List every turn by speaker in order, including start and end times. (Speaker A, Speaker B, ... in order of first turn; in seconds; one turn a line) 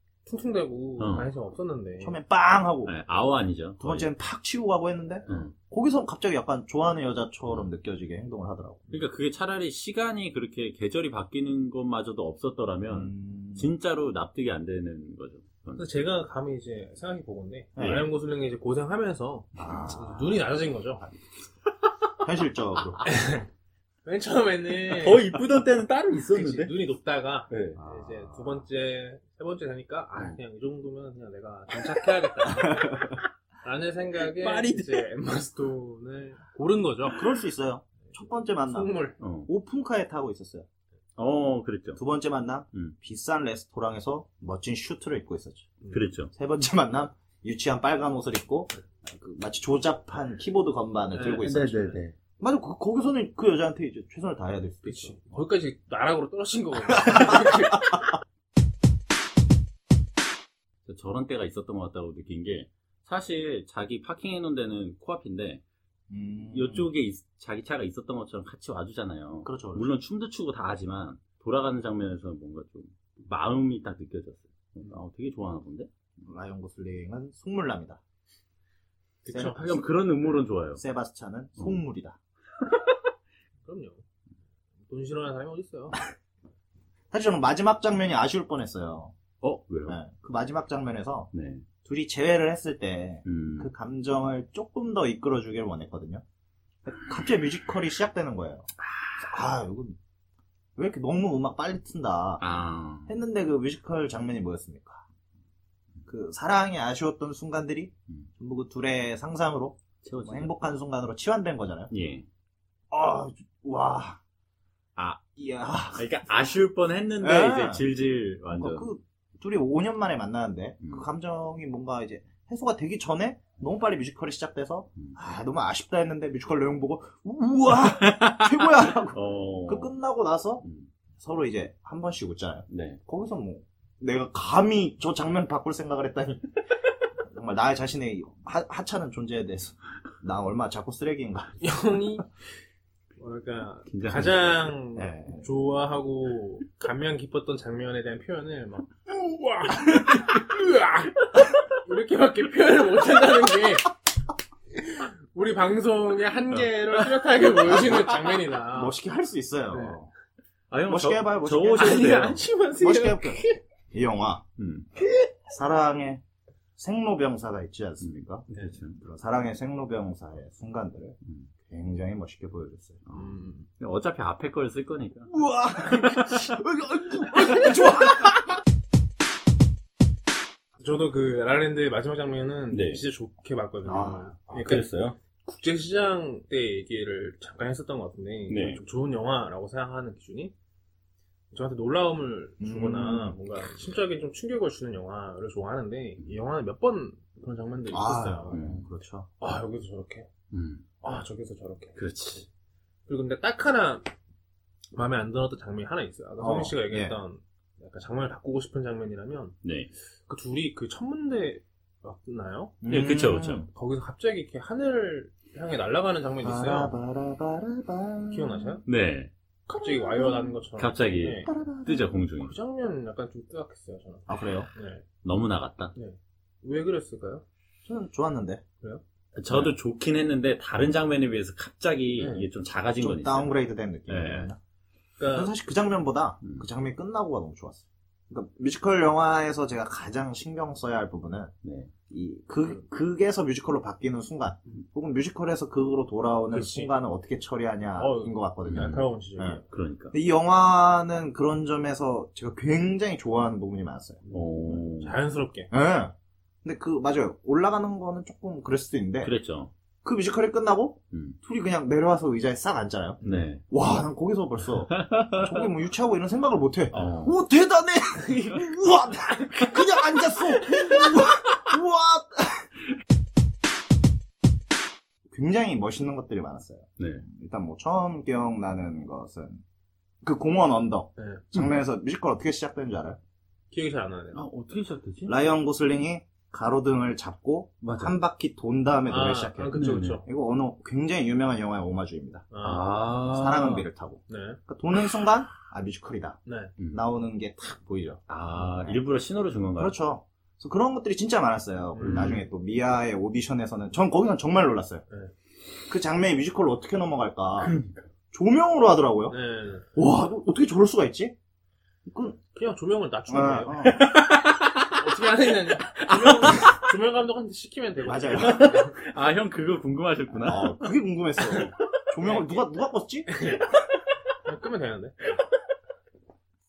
Speaker A: 0.2-2.2
Speaker B: 1.0-1.3
Speaker C: 2.0-2.9
Speaker B: 2.8-4.1
Speaker C: 3.8-9.0
Speaker B: 5.3-5.5
Speaker B: 8.9-15.9
Speaker C: 12.9-13.7
Speaker A: 15.8-21.1
Speaker C: 17.8-18.1
Speaker B: 17.8-18.0
Speaker C: 19.6-20.3
Speaker C: 22.2-23.0
Speaker A: 23.0-23.5
Speaker A: 24.0-25.4
Speaker B: 24.9-26.8
Speaker A: 26.3-37.3
Speaker B: 27.5-27.8
Speaker C: 27.8-28.6
Speaker C: 32.5-33.2
Speaker B: 34.2-35.1
Speaker C: 37.0-38.9
Speaker A: 38.6-39.2
Speaker B: 39.2-39.5
Speaker C: 39.5-40.6
Speaker B: 41.1-42.0
Speaker C: 42.0-45.7
Speaker B: 45.9-46.3
Speaker C: 46.3-55.4
Speaker A: 51.1-52.0
Speaker B: 51.4-52.1
Speaker A: 54.8-58.1
Speaker C: 56.9-58.0
Speaker B: 60.9-65.6
Speaker C: 66.1-66.9
Speaker B: 66.5-75.9
Speaker C: 69.4-69.9
Speaker C: 76.2-78.0
Speaker A: 79.2-79.8
Speaker C: 79.3-79.7
Speaker B: 79.3-80.8
Speaker C: 80.7-82.2
Speaker A: 83.6-84.0
Speaker A: 84.9-86.1
Speaker C: 87.1-89.1
Speaker B: 89.4-90.0
Speaker C: 89.9-91.3
Speaker B: 91.3-91.6
Speaker C: 91.8-96.2
Speaker B: 93.2-93.7
Speaker C: 96.8-100.0
Speaker B: 98.8-99.2
Speaker C: 100.8-102.4
Speaker B: 102.4-103.2
Speaker C: 103.1-105.0
Speaker C: 106.0-111.9
Speaker B: 110.0-110.5
Speaker B: 111.9-112.2
Speaker C: 112.9-114.2
Speaker B: 115.0-115.2
Speaker C: 115.3-116.1
Speaker B: 115.9-118.9
Speaker C: 117.2-117.8
Speaker C: 118.5-130.6
Speaker B: 127.8-129.9
Speaker B: 130.6-130.9
Speaker C: 131.2-136.6
Speaker B: 132.7-133.0
Speaker C: 137.2-141.6
Speaker A: 141.6-142.3
Speaker A: 143.2-153.9
Speaker B: 143.9-144.7
Speaker C: 144.9-145.5
Speaker A: 154.7-158.9
Speaker C: 157.7-158.1
Speaker C: 158.7-160.1
Speaker A: 159.7-160.0
Speaker B: 160.7-162.4
Speaker C: 160.9-164.4
Speaker A: 161.7-163.6
Speaker B: 164.6-164.9
Speaker C: 165.4-166.2
Speaker C: 166.8-168.4
Speaker B: 168.0-169.0
Speaker C: 169.0-173.0
Speaker B: 171.2-171.5
Speaker B: 173.1-176.5
Speaker A: 173.1-173.7
Speaker C: 175.3-178.4
Speaker A: 180.8-184.9
Speaker B: 182.7-183.0
Speaker C: 183.8-184.3
Speaker B: 184.5-185.2
Speaker A: 185.4-190.5
Speaker B: 188.5-188.8
Speaker A: 191.5-198.6
Speaker C: 192.6-193.4
Speaker C: 197.9-199.3
Speaker B: 198.5-198.9
Speaker A: 199.4-200.3
Speaker B: 200.5-200.8
Speaker A: 201.0-202.0
Speaker B: 201.9-202.5
Speaker A: 203.1-204.1
Speaker A: 204.9-209.6
Speaker C: 206.4-207.2
Speaker B: 209.6-209.9
Speaker A: 210.3-212.8
Speaker C: 212.8-213.7
Speaker B: 212.9-213.7
Speaker A: 213.7-216.9
Speaker C: 216.4-218.8
Speaker A: 218.3-218.8
Speaker B: 218.8-219.3
Speaker C: 219.7-220.6
Speaker A: 219.7-221.5
Speaker B: 220.8-222.5
Speaker C: 221.4-222.1
Speaker A: 222.4-225.1
Speaker C: 224.3-224.7
Speaker B: 225.2-225.9
Speaker A: 225.9-227.4
Speaker C: 227.8-228.6
Speaker B: 229.3-233.5
Speaker C: 229.5-229.7
Speaker A: 232.2-232.5
Speaker C: 233.0-234.6
Speaker B: 234.1-234.5
Speaker A: 235.2-235.5
Speaker C: 235.3-241.5
Speaker B: 236.4-236.7
Speaker B: 241.6-241.9
Speaker C: 242.1-254.8
Speaker A: 246.5-246.9
Speaker A: 247.9-249.6
Speaker B: 248.7-249.1
Speaker B: 249.7-250.1
Speaker A: 254.2-255.7
Speaker B: 254.3-255.2
Speaker C: 255.7-259.3
Speaker B: 259.2-259.7
Speaker C: 260.0-272.7
Speaker B: 261.1-261.4
Speaker B: 263.2-263.6
Speaker B: 264.9-265.7
Speaker B: 266.9-267.4
Speaker A: 268.3-268.6
Speaker C: 275.3-279.6
Speaker B: 277.0-277.2
Speaker C: 280.2-283.2
Speaker A: 281.2-281.5
Speaker A: 283.7-284.4
Speaker B: 284.3-285.4
Speaker C: 285.3-292.5
Speaker B: 287.8-288.1
Speaker A: 289.1-290.3
Speaker B: 289.7-290.2
Speaker A: 292.5-292.9
Speaker B: 292.6-293.9
Speaker C: 293.3-296.4
Speaker A: 294.3-294.6
Speaker A: 296.4-296.7
Speaker C: 296.9-299.0
Speaker B: 298.3-299.9
Speaker C: 299.8-305.0
Speaker A: 301.9-302.4
Speaker B: 302.0-302.4
Speaker C: 305.9-307.8
Speaker B: 307.6-308.1
Speaker C: 308.3-309.4
Speaker A: 309.3-309.9
Speaker C: 309.9-311.3
Speaker C: 312.1-312.4
Speaker A: 312.5-313.9
Speaker C: 313.3-314.1
Speaker B: 313.8-315.1
Speaker A: 314.9-319.0
Speaker B: 315.8-316.8
Speaker C: 318.1-318.7
Speaker B: 318.4-320.8
Speaker C: 320.3-323.5
Speaker A: 322.2-322.6
Speaker A: 323.3-323.7
Speaker A: 324.4-325.3